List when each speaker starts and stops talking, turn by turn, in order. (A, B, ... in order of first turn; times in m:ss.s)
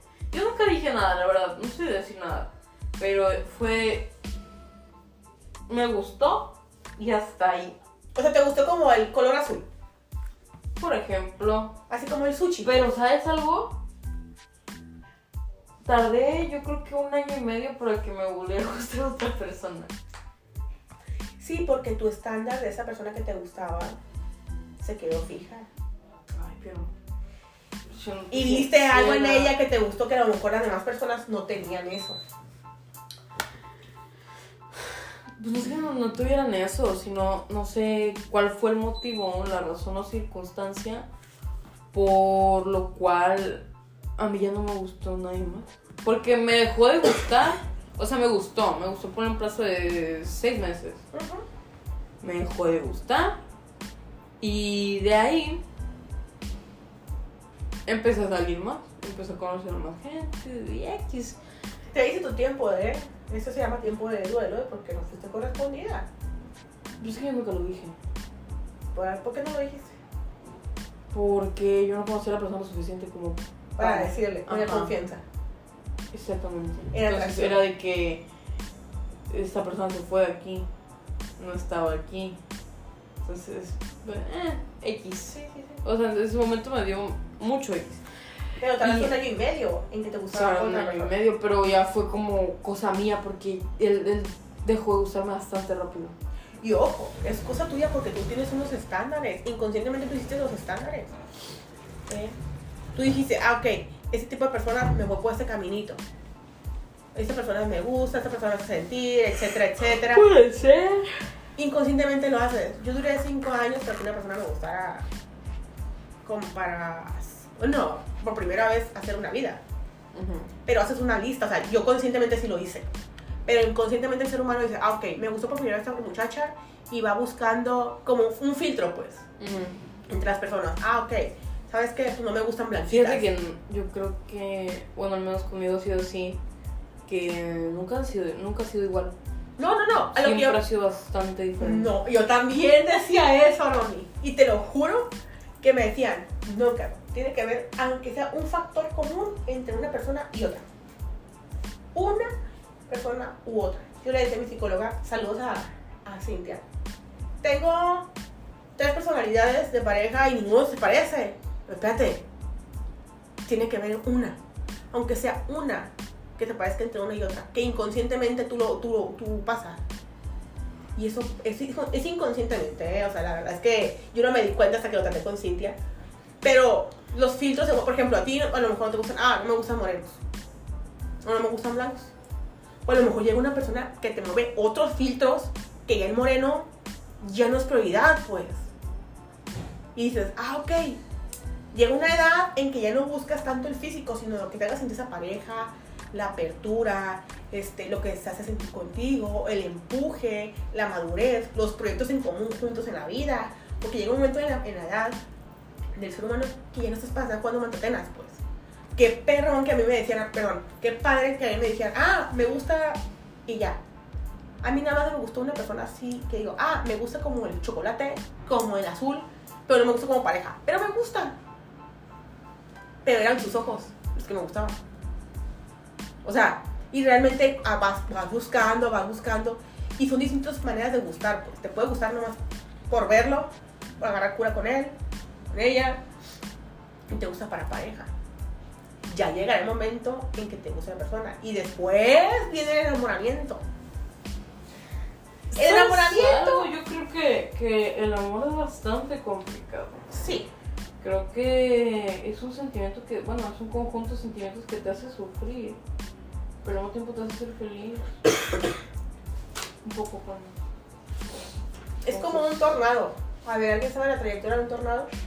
0:00.3-0:04.1 A
0:05.7-0:07.8 A
0:08.2-0:09.6 B
0:10.8-0:11.8 A
0:11.9-0:12.8 B
0:12.6-0:13.8 A
0:15.8-0:19.9 A
0:21.4-0:24.0 B
0:24.8-0:25.7 B
0:26.4-0:26.9 A
0:27.9-0:29.5 A
0:28.3-0:32.2 B
0:35.4-0:41.1 A
0:41.9-0:43.7 A
0:44.2-0:51.0 A
0:51.1-0:51.4 B
0:52.2-0:53.4 A
0:54.4-0:55.6 A
0:57.9-1:01.4 A
1:01.9-1:06.1 B
1:07.0-1:08.0 A
1:08.9-1:10.0 B
1:11.1-1:14.9 A
1:13.8-1:15.2 B
1:16.1-1:18.2 A
1:16.9-1:17.6 B
1:19.3-1:20.7 A
1:21.4-1:22.4 A
1:23.2-1:28.0 A
1:25.4-1:25.7 B
1:28.6-1:31.1 B
1:28.8-1:29.1 A
1:30.3-1:36.2 A
1:36.6-1:41.1 B
1:42.1-1:42.4 B
1:43.0-1:46.0 B
1:47.2-1:50.2 B
1:50.1-1:51.2 A
1:51.6-1:55.0 B
1:56.2-1:59.6 B
2:00.1-2:00.5 A
2:00.7-2:02.9 B
2:03.5-2:09.3 B
2:09.4-2:09.8 A
2:10.1-2:13.3 B
2:12.9-2:16.4 A
2:17.1-2:19.2 A
2:19.6-2:20.6 B
2:20.2-2:21.9 A
2:21.6-2:30.6 B
2:31.9-2:32.3 B
2:32.9-2:36.6 B
2:37.4-2:38.1 B
2:38.8-2:42.2 B
2:43.4-2:44.4 B
2:44.9-2:49.8 B
2:51.0-2:55.8 B
2:56.4-3:00.2 B
3:01.2-3:02.1 B
3:02.9-3:06.7 B
3:07.2-3:08.7 B
3:10.0-3:11.0 B
3:11.7-3:25.2 B
3:26.0-3:28.4 B
3:29.0-3:33.8 B
3:34.6-3:41.4 B
3:43.0-3:44.8 B
3:46.2-3:54.9 B
3:55.5-3:56.0 B
3:57.1-3:58.1 B
3:59.0-4:03.6 B
4:05.5-4:10.1 A
4:05.6-4:06.7 B
4:10.1-4:10.5 B
4:11.0-4:15.8 A
4:16.6-4:18.1 A
4:19.8-4:20.6 A
4:22.0-4:25.1 B
4:22.1-4:22.7 A